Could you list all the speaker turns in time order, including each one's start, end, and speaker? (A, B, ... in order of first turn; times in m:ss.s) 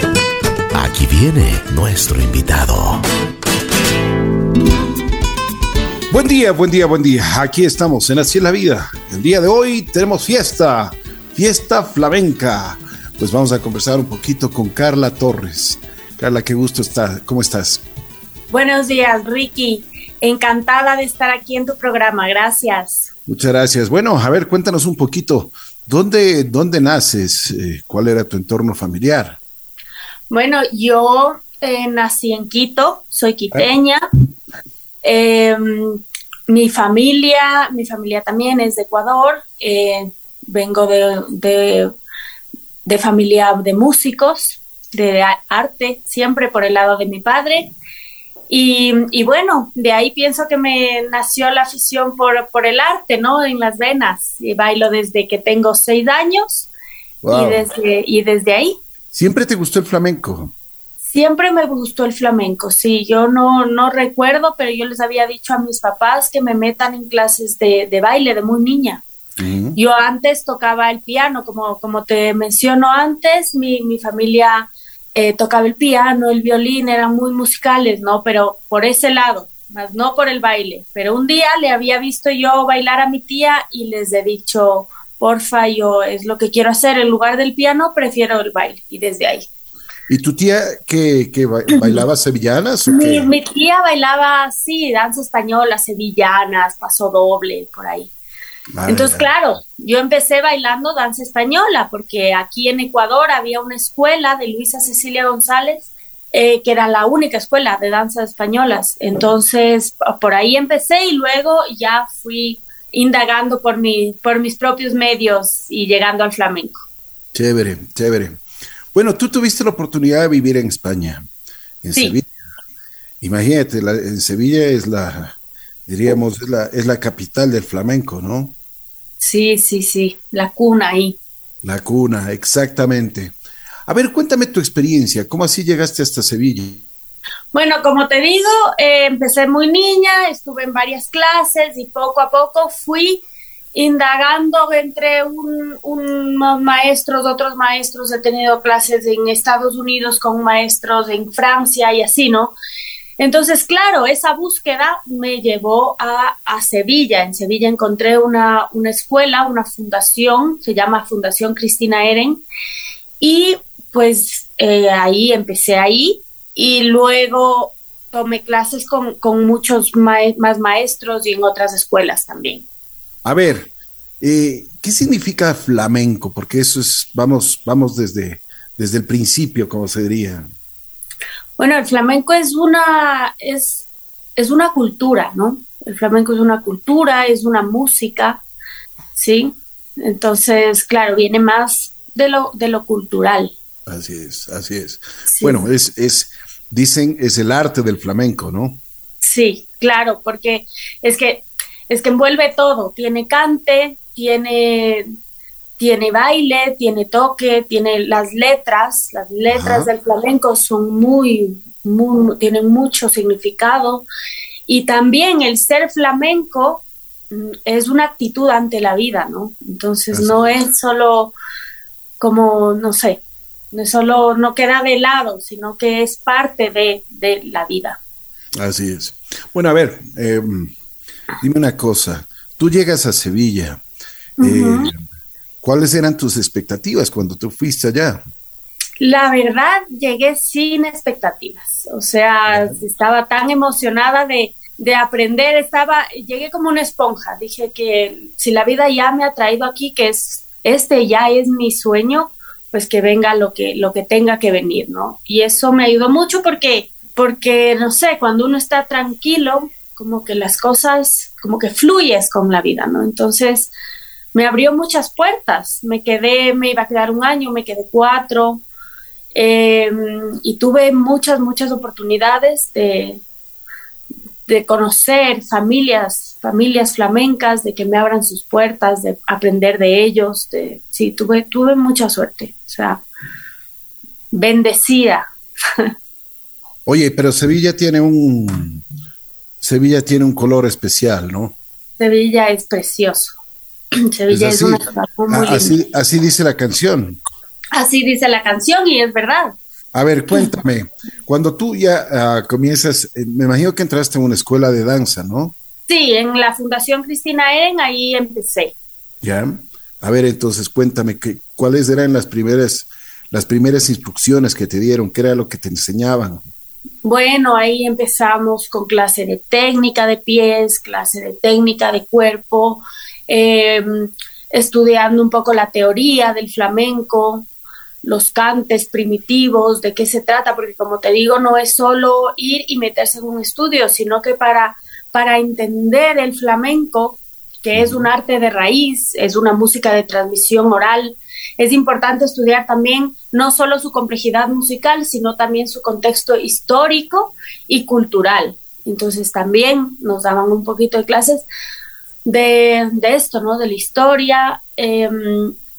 0:00.7-0:03.0 A
0:06.1-0:17.8 B
0:18.5-0:23.1 C
0:23.3-0:29.4 B
0:30.3-0:34.0 C
0:35.0-0:41.9 C
0:42.8-0:47.7 C
0:48.5-0:56.7 C
0:57.2-0:57.6 B
0:57.3-0:58.7 C
0:59.1-1:00.5 B
1:01.0-1:09.0 C
1:09.4-1:09.8 B
1:09.7-1:29.5 C
1:30.1-1:33.3 B
1:31.7-1:32.0 C
1:32.8-1:38.1 C
1:38.7-1:39.3 B
1:38.8-1:56.8 C
1:57.3-1:58.4 B
1:58.9-2:01.2 B
2:01.8-2:02.3 B
2:03.2-2:08.5 B
2:09.2-2:11.2 C
2:11.6-2:13.3 B
2:13.9-2:16.8 B
2:17.5-2:23.2 C
2:23.7-2:32.5 C
2:33.2-2:42.4 C
2:43.2-2:52.6 C
2:53.2-3:00.4 B
3:01.6-3:08.4 C
3:09.1-3:13.5 C
3:13.8-3:18.8 B
3:15.2-3:15.6 C
3:19.2-3:25.0 C
3:25.8-3:34.0 C
3:29.5-3:29.9 B
3:34.7-3:41.3 C
3:40.1-3:40.5 B
3:42.2-3:43.2 C
3:43.7-3:48.0 C
3:48.6-3:50.7 B
3:51.4-3:53.8 B
3:54.4-3:54.9 C
3:54.4-3:55.0 B
3:55.6-3:58.2 B
3:59.0-4:23.7 C
4:02.5-4:02.8 B
4:24.3-4:28.6 C
4:29.3-4:33.2 C
4:34.4-4:43.0 C
4:44.3-4:45.2 C
4:46.8-4:48.8 B
4:49.6-4:51.6 B
4:52.0-4:53.4 C
4:54.1-4:55.7 C
4:54.3-4:57.2 B
4:57.7-4:59.5 C
4:59.9-5:05.5 B
5:05.9-5:08.7 C
5:09.2-5:16.4 B
5:17.0-5:27.5 C
5:28.0-5:51.4 C
5:37.7-5:38.1 B
5:52.2-5:55.5 C